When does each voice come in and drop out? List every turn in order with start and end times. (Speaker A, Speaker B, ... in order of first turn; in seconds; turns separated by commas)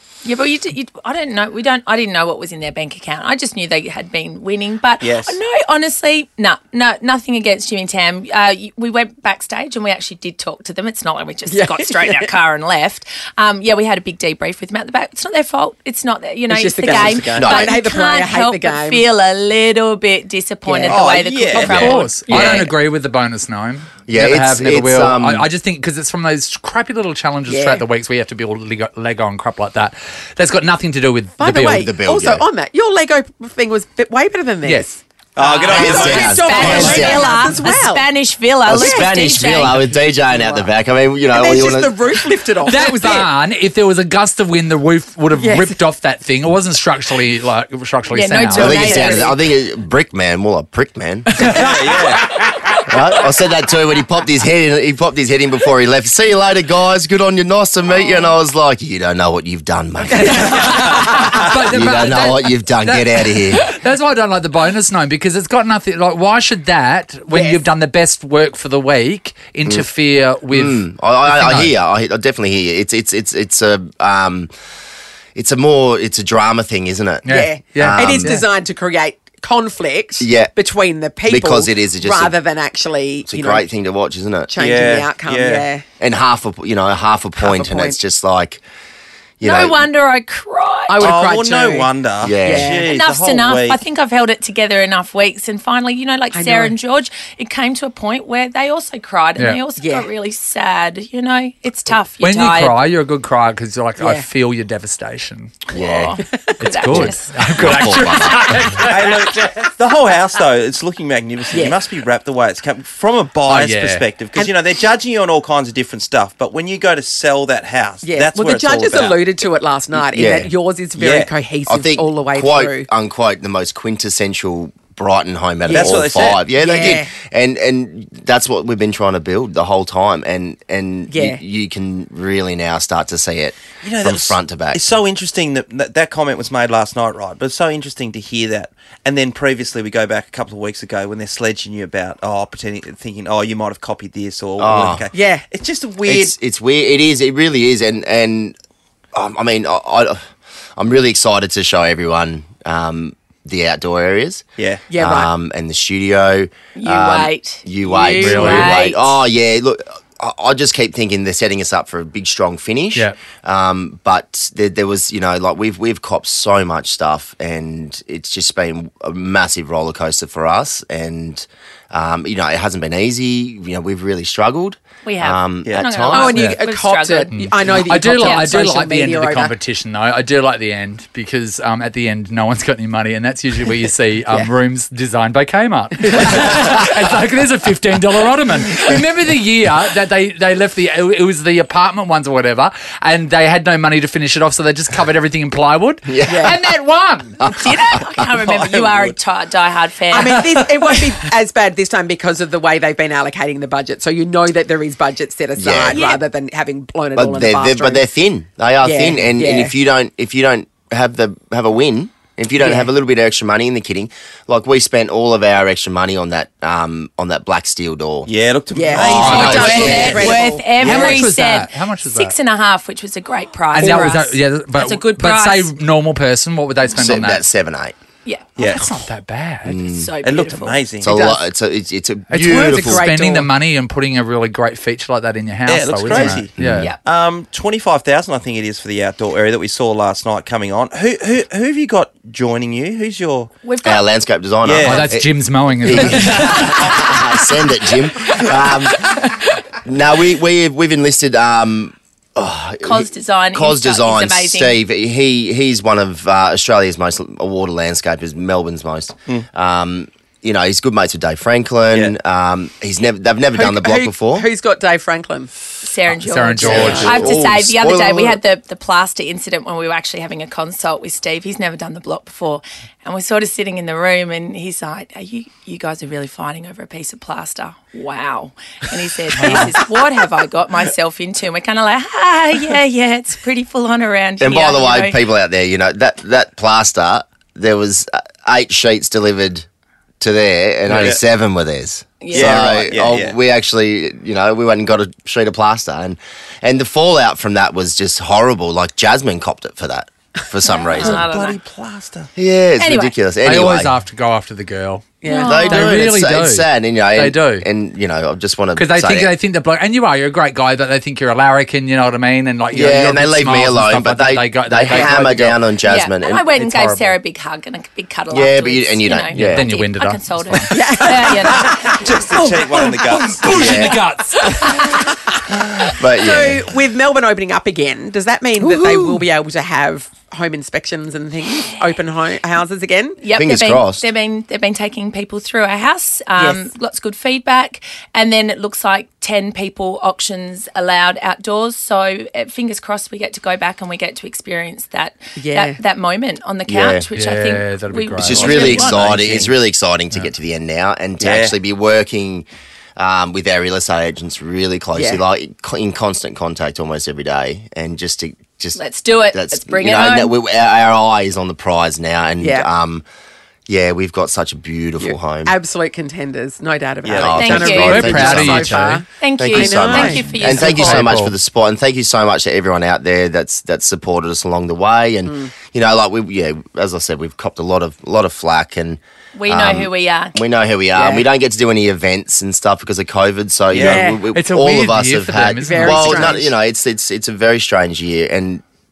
Speaker A: 0.2-22.7, Speaker B: 5.0-5.4, Speaker C: 11.5-12.3, Speaker C: 16.5-19.1, Speaker B: 16.8-17.5, Speaker D: 17.3-17.7, Speaker C: 20.6-21.0, Speaker B: 20.9-21.8, Speaker E: 21.5-31.9, Speaker D: 21.6-21.9, Speaker D: 24.1-25.5, Speaker C: 27.5-27.8, Speaker C: 31.4-38.1, Speaker D: 31.7-32.5, Speaker E: 34.6-34.9, Speaker B: 35.4-37.1, Speaker D: 35.7-37.3, Speaker A: 36.1-39.8, Speaker D: 38.6-42.0, Speaker C: 38.7-39.1, Speaker C: 40.2-40.7, Speaker C: 41.3-43.3, Speaker E: 42.6-48.9, Speaker C: 45.3-45.7, Speaker A: 48.1-49.4, Speaker D: 48.5-51.7, Speaker B: 51.5-52.3, Speaker D: 52.9-63.7, Speaker A: 57.9-58.3, Speaker E: 60.1-71.7, Speaker C: 67.3-67.6, Speaker D: 70.5-74.5, Speaker D: 75.3-77.2, Speaker E: 77.2-78.4, Speaker C: 77.3-83.7, Speaker D: 77.8-78.4, Speaker D: 80.2-80.5, Speaker D: 81.3-82.3, Speaker D: 83.3-84.5, Speaker C: 84.5-85.8, Speaker B: 84.6-85.7, Speaker D: 86.0-88.6, Speaker C: 87.3-88.0, Speaker D: 89.4-89.9, Speaker A: 89.4-91.2, Speaker C: 90.9-92.9, Speaker B: 91.0-93.8, Speaker D: 92.2-92.8, Speaker A: 92.5-102.8, Speaker C: 96.3-96.8, Speaker C: 99.8-100.1, Speaker E: 102.2-105.6, Speaker C: 104.0-104.3, Speaker D: 105.7-106.2, Speaker A: 105.8-107.5, Speaker E: 106.6-109.5, Speaker D: 106.8-108.7, Speaker B: 108.9-119.2, Speaker C: 111.5-111.8, Speaker E: 113.5-114.0, Speaker C: 118.0-122.9, Speaker D: 120.1-120.5, Speaker B: 121.0-121.3, Speaker D: 121.7-134.8, Speaker C: 125.7-127.1, Speaker B: 125.7-126.9, Speaker C: 131.1-131.4, Speaker B: 133.8-146.3, Speaker D: 144.6-145.1, Speaker C: 145.1-145.4, Speaker D: 146.0-148.6, Speaker D: 149.1-150.2, Speaker D: 150.8-154.4, Speaker C: 154.9-155.3, Speaker D: 155.0-176.4, Speaker A: 156.7-159.2, Speaker C: 157.8-158.6, Speaker E: 158.2-158.8, Speaker A: 175.0-177.4, Speaker C: 176.1-179.5, Speaker E: 176.3-176.6, Speaker E: 177.3-197.7, Speaker A: 178.1-178.5, Speaker D: 196.1-196.6, Speaker C: 196.2-196.6, Speaker D: 197.5-198.2, Speaker A: 197.6-200.4, Speaker B: 198.5-199.1, Speaker C: 200.1-208.1, Speaker E: 200.3-200.7, Speaker D: 205.6-206.0, Speaker A: 205.9-206.2, Speaker D: 207.2-218.3, Speaker C: 208.8-209.7, Speaker C: 212.6-212.9, Speaker B: 218.2-221.2, Speaker C: 218.7-221.2, Speaker E: 218.9-222.3, Speaker D: 219.0-220.4, Speaker A: 219.8-225.7, Speaker E: 223.7-227.4, Speaker C: 223.8-224.1, Speaker D: 226.9-227.9, Speaker A: 228.2-228.8, Speaker B: 228.6-229.0, Speaker E: 228.6-229.8, Speaker D: 229.6-230.1, Speaker A: 229.9-231.4, Speaker B: 230.2-231.1, Speaker D: 231.0-233.1, Speaker C: 231.1-231.3, Speaker E: 232.3-236.9, Speaker C: 232.3-233.5, Speaker B: 235.7-243.5, Speaker D: 236.6-236.9, Speaker A: 243.6-244.0, Speaker D: 243.8-245.3, Speaker B: 244.6-245.0, Speaker E: 244.8-246.9, Speaker D: 245.8-264.5, Speaker A: 252.8-254.8, Speaker C: 263.5-265.5, Speaker A: 265.8-285.2, Speaker E: 266.1-267.3, Speaker C: 266.6-267.2, Speaker D: 266.6-268.4, Speaker D: 284.4-289.6, Speaker D: 290.2-301.2, Speaker A: 292.2-292.9, Speaker B: 292.3-293.4, Speaker A: 300.7-301.6, Speaker B: 301.0-302.3, Speaker D: 302.4-303.9, Speaker A: 302.8-303.1, Speaker E: 303.4-307.7, Speaker C: 305.2-305.6, Speaker A: 305.2-306.0, Speaker D: 305.5-309.3, Speaker E: 308.7-315.6, Speaker D: 312.7-316.4, Speaker A: 315.8-322.6, Speaker E: 316.5-317.2, Speaker D: 318.3-319.7, Speaker E: 319.3-322.0, Speaker C: 320.7-321.9, Speaker B: 322.0-323.8, Speaker E: 322.6-325.0, Speaker D: 323.4-323.9, Speaker A: 323.8-324.8, Speaker D: 325.5-326.6, Speaker C: 326.1-333.3, Speaker D: 328.6-329.2, Speaker A: 333.2-349.0, Speaker D: 333.4-334.1, Speaker C: 336.4-336.7, Speaker C: 345.4-345.8, Speaker D: 346.7-347.1, Speaker E: 347.1-349.6, Speaker D: 348.2-352.4, Speaker B: 351.2-351.5, Speaker D: 353.0-358.8, Speaker C: 354.9-355.2, Speaker A: 358.7-360.3, Speaker D: 359.3-363.0, Speaker C: 362.4-362.7, Speaker D: 363.7-365.5, Speaker C: 365.0-370.3, Speaker B: 367.0-367.4, Speaker D: 367.2-368.8, Speaker A: 367.4-368.0, Speaker E: 367.8-369.1, Speaker A: 369.1-371.1, Speaker D: 369.4-388.6, Speaker E: 370.0-371.3, Speaker C: 375.2-375.5, Speaker A: 379.3-380.4, Speaker C: 380.9-381.2, Speaker C: 383.7-384.2, Speaker E: 384.3-386.4, Speaker C: 385.6-386.5